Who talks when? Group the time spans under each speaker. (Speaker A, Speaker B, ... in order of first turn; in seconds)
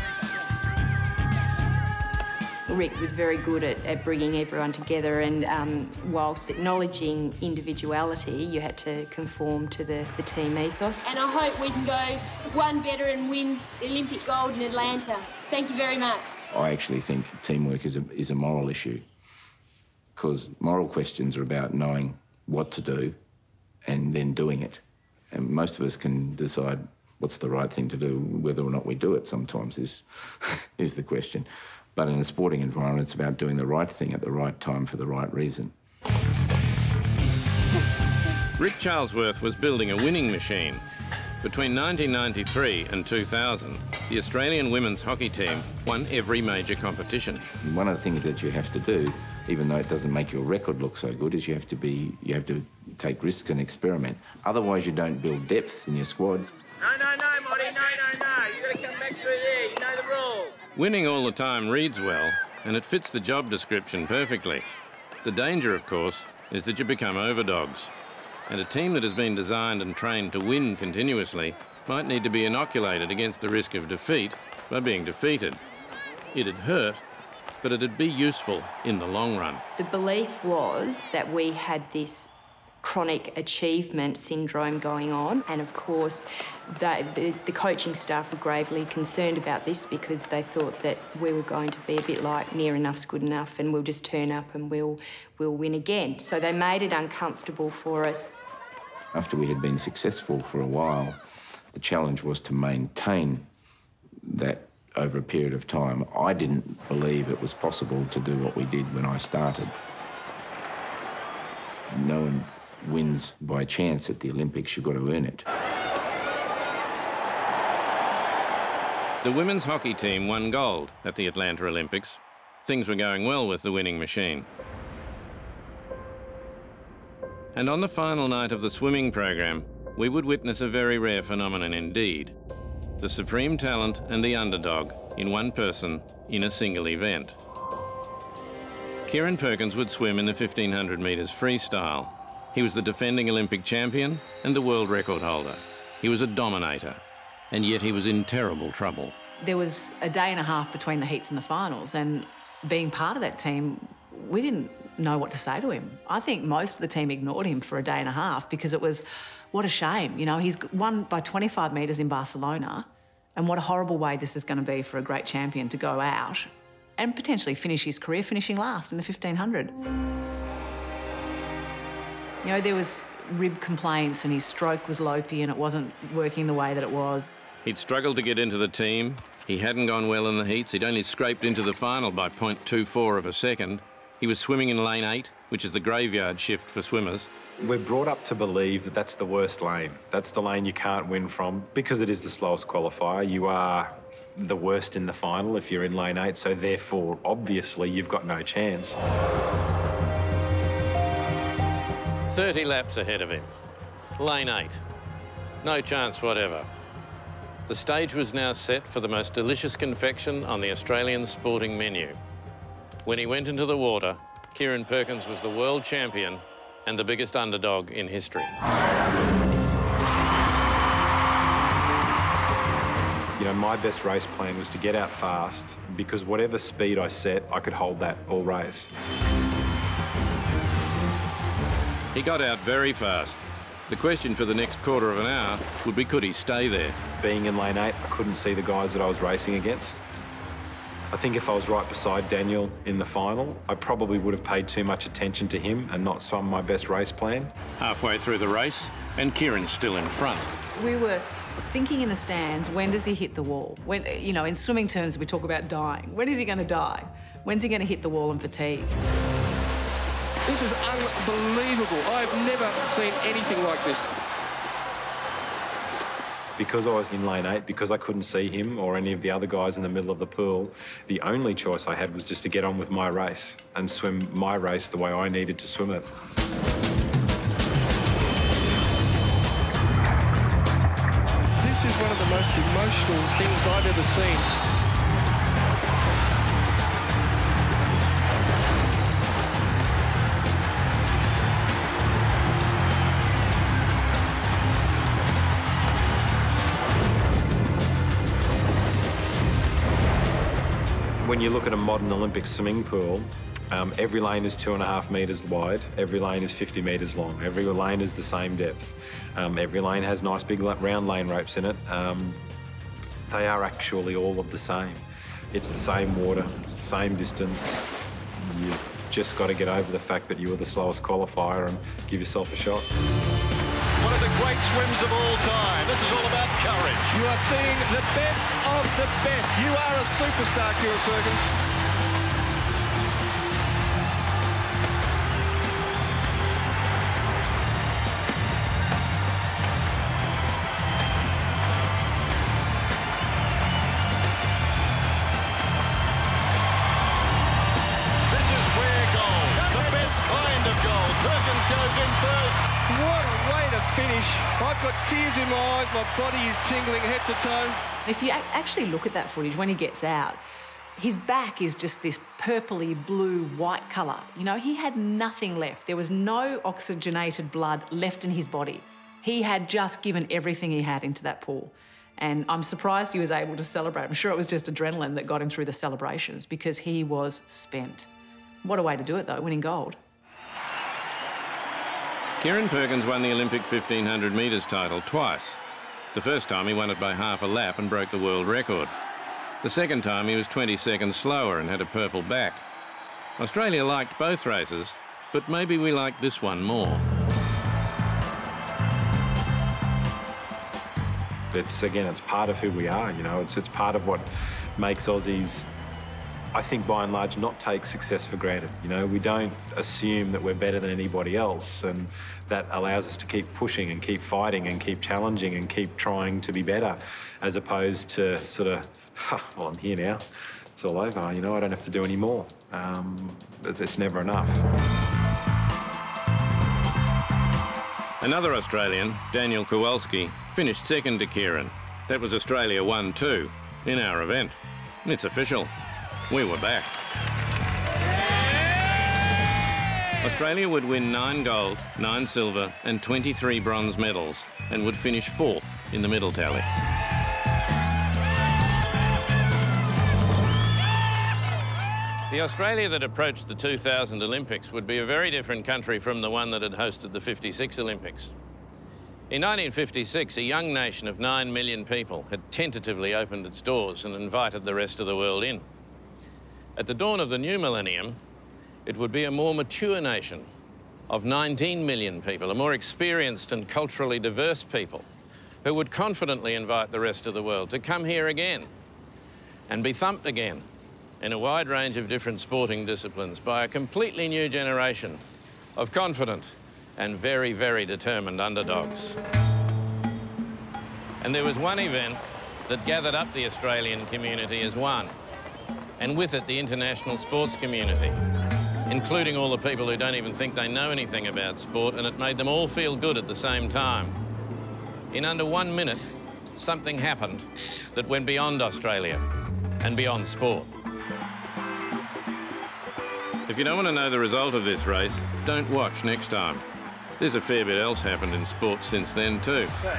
Speaker A: 2.7-11.1, 79.8-82.3, 82.8-98.3
Speaker B: 11.0-16.3
Speaker C: 16.5-19.0, 20.1-23.2, 23.9-35.7, 47.6-56.5, 99.1-101.2, 101.7-103.5, 104.2-109.7, 111.9-115.4
Speaker D: 38.6-40.8, 41.4-47.5, 60.7-64.7, 65.2-67.9, 68.5-75.6, 76.3-77.0, 77.6-79.6, 119.2-124.5, 127.5-132.3, 133.0-137.4, 139.1-149.1, 177.6-187.3, 202.3-203.5, 204.2-204.8, 205.6-206.7, 207.7-212.2, 213.1-218.5, 232.1-237.0, 247.8-250.5, 382.4-385.6, 386.1-388.9, 389.6-392.6, 393.4-397.0, 428.2-435.7, 436.3-436.9, 440.2-446.7, 452.3-458.3, 459.3-465.6, 466.8-468.2, 468.9-470.5, 471.1-475.1, 475.6-478.7, 479.7-480.6, 481.2-485.2, 485.8-489.2, 491.2-495.1, 496.0-498.2, 498.9-504.2, 505.1-509.2, 509.8-510.7, 513.5-516.6, 517.2-519.7
Speaker E: 56.8-60.5
Speaker F: 149.4-169.7, 172.4-177.3, 250.7-258.9, 358.1-360.4, 360.9-378.1, 378.6-380.0
Speaker G: 187.6-199.0, 223.4-228.9, 237.2-240.1, 241.1-247.5, 266.6-276.1, 301.2-312.4, 313.3-322.9, 401.5-405.7, 406.5-420.2, 420.7-424.6
Speaker H: 260.4-264.1, 281.6-284.6, 324.0-331.4, 348.3-357.8